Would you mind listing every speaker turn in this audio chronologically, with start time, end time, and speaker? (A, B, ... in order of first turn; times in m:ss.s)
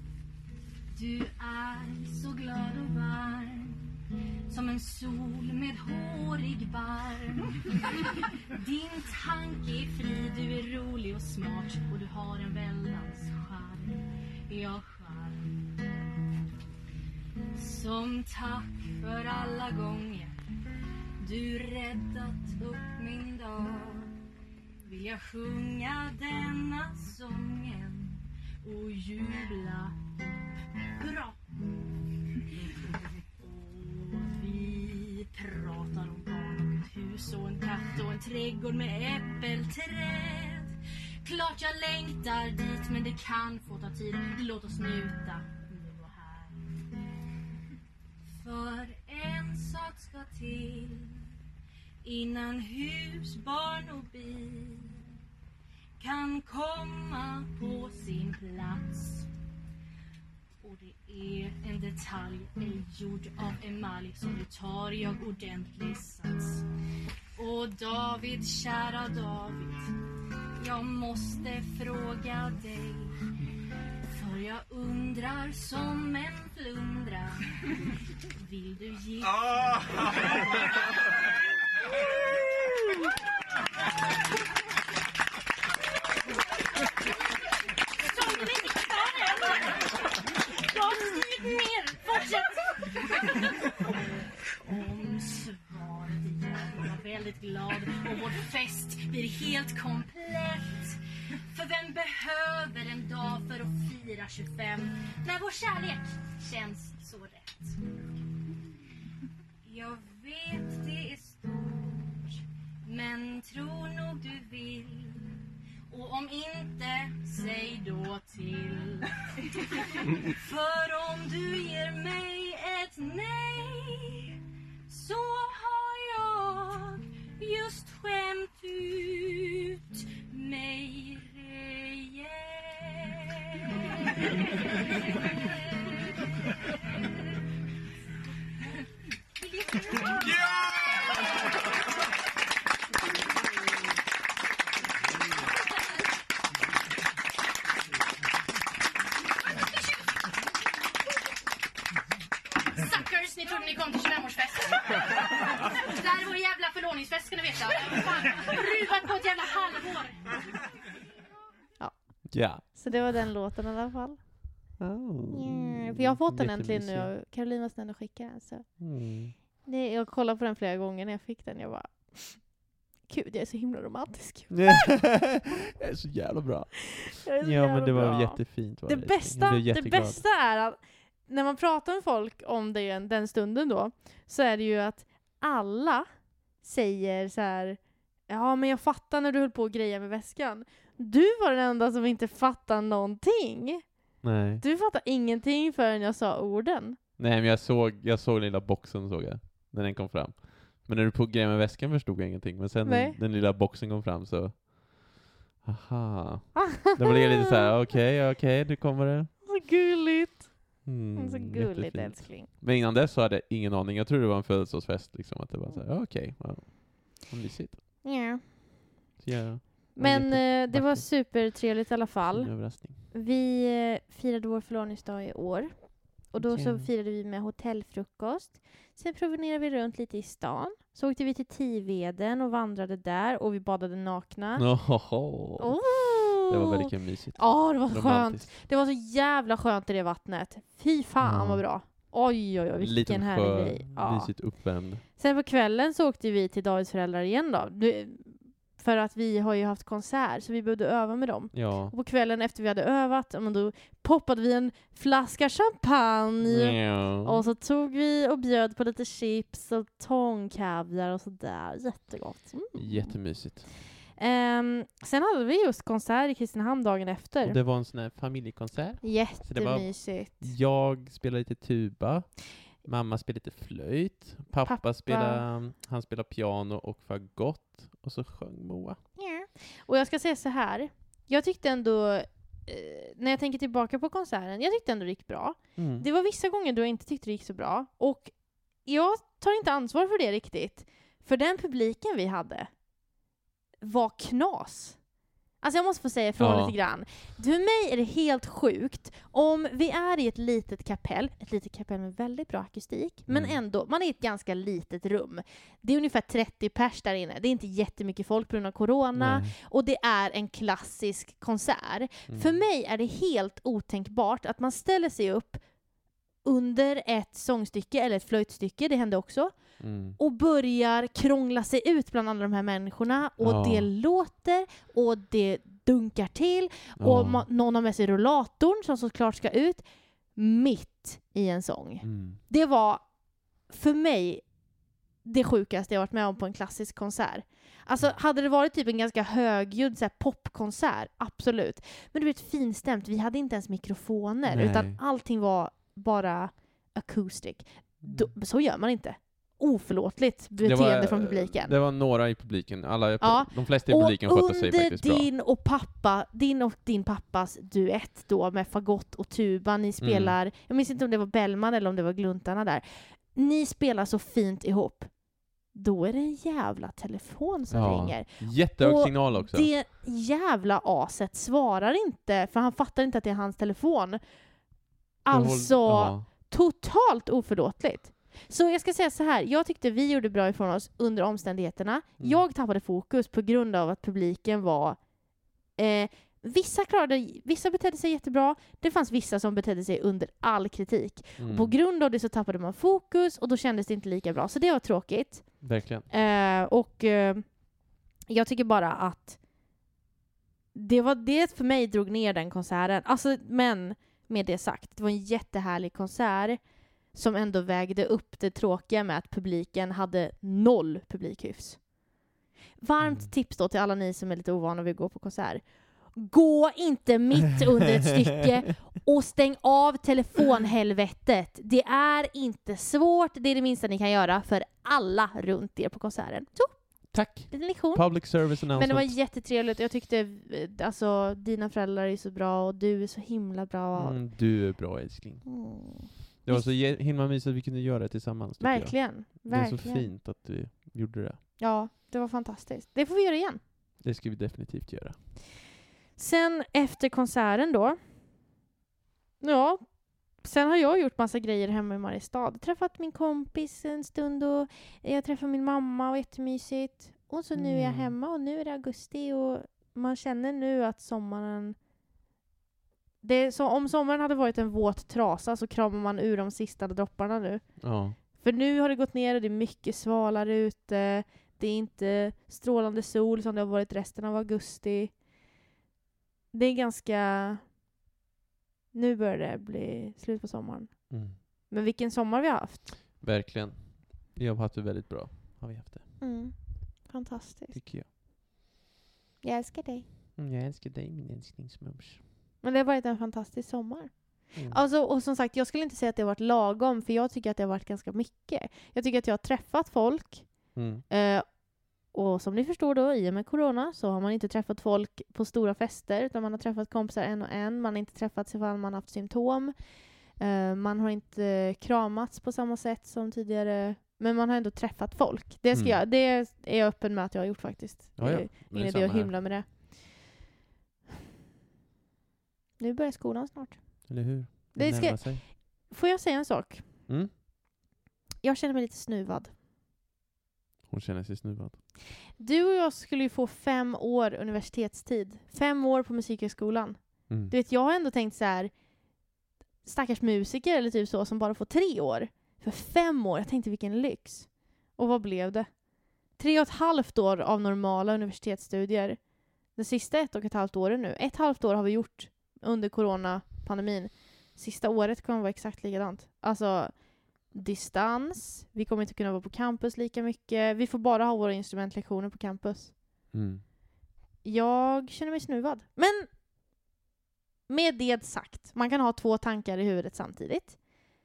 0:00.9-0:15.8 A
0:17.5-0:20.4 A
0:21.2-0:24.2 A
0:24.9-0:31.4 A
0:33.4-0:46.9 A
0:48.3-0:51.2 A
0:52.0-0:55.0 A
0:56.0-0:59.3 A
1:00.6-1:06.7 A
1:07.4-1:10.0 A
1:10.6-1:13.2 A
1:14.1-1:17.7 A
1:18.4-1:20.7 A
1:28.0-1:48.0 A
1:49.6-2:17.4 A
2:18.6-2:21.0 A
2:32.7-2:35.1 A
2:35.6-2:40.2 A
2:41.8-2:44.3 B
2:42.3-2:42.6 C
2:44.8-2:47.1 C
2:45.3-2:48.8 B
2:48.8-2:49.4 C
2:49.6-2:55.0 B
2:54.5-3:00.2 C
2:57.2-3:06.0 B
3:06.6-3:14.0 B
3:14.2-3:14.6 C
3:14.6-3:17.0 B
3:17.2-3:29.3 C
3:22.8-3:23.2 B
3:26.6-3:27.7 B
3:29.5-3:32.5 B
3:30.8-3:37.8 C
3:38.0-3:38.4 B
3:39.2-3:41.3 C
3:40.0-3:54.8 B
3:42.3-3:43.0 C
3:46.4-3:46.9 C
3:54.6-3:58.5 C
3:55.6-4:04.6 B
4:01.2-4:01.6 C
4:02.8-4:05.0 C
4:05.1-4:23.2 B
4:11.5-4:11.9 C
4:16.4-4:17.4 C
4:22.8-4:23.7 C
4:24.2-4:27.6 B
4:27.4-4:39.0 C
4:29.0-4:30.5 B
4:34.6-4:35.4 B
4:39.2-4:52.8 B
4:45.8-4:46.1 C
4:53.8-4:55.0 B
4:55.6-5:15.6 B
4:56.4-4:56.8 C
5:03.3-5:03.6 C
5:09.2-5:09.6 C
5:12.3-5:12.6 C
5:16.4-5:33.1 B
5:19.8-5:20.2 C
5:23.4-5:23.9 C
5:27.0-5:27.5 C
5:32.0-5:32.4 C
5:33.7-5:34.5 B
5:35.2-5:51.8 B
5:44.5-5:45.0 C
5:48.0-5:48.3 C
5:50.6-5:55.3 C
5:53.2-6:05.1 B
6:00.0-6:00.4 C
6:05.7-6:14.2 B
6:07.7-6:09.7 C
6:15.2-6:25.0 B
6:15.3-6:16.3 C
6:25.7-6:37.6 B
6:31.4-6:31.8 C
6:35.6-6:36.1 C
6:38.3-6:39.4 B
6:40.7-6:46.6 B
6:47.1-6:51.9 B
6:52.8-7:14.2 B
6:53.0-6:53.3 C
7:07.1-7:09.2 C
7:14.0-7:15.5 C
7:15.4-7:16.7 B
7:16.4-7:21.4 C
7:18.6-7:20.1 B
7:21.6-7:23.6 B
7:24.0-7:25.2 C
7:26.2-7:28.0 B
7:29.4-7:41.8 B
7:37.6-7:38.1 C
7:43.2-7:55.2 B
7:47.8-7:48.2 C
7:56.5-7:57.6 B
7:58.9-8:02.9 B
8:01.1-8:01.4 C
8:03.2-8:06.2 C
8:06.2-8:07.8 B
8:07.7-8:08.1 C
8:09.4-8:10.1 B
8:10.4-8:12.2 C
8:12.6-8:40.1 B
8:14.6-8:14.8 C
8:20.8-8:21.0 C
8:35.7-8:36.0 C
8:38.2-8:39.4 C
8:42.8-8:44.1 B
8:44.1-8:45.5 C
8:44.7-8:47.1 B
8:47.1-8:47.3 C
8:48.4-8:49.5 B
8:50.9-8:51.8 C
8:52.4-8:58.7 B
8:57.3-8:57.5 C
8:59.8-9:05.8 B
9:06.3-9:23.0 B
9:23.3-9:23.6 C
9:24.4-9:26.3 B
9:27.7-9:30.8 B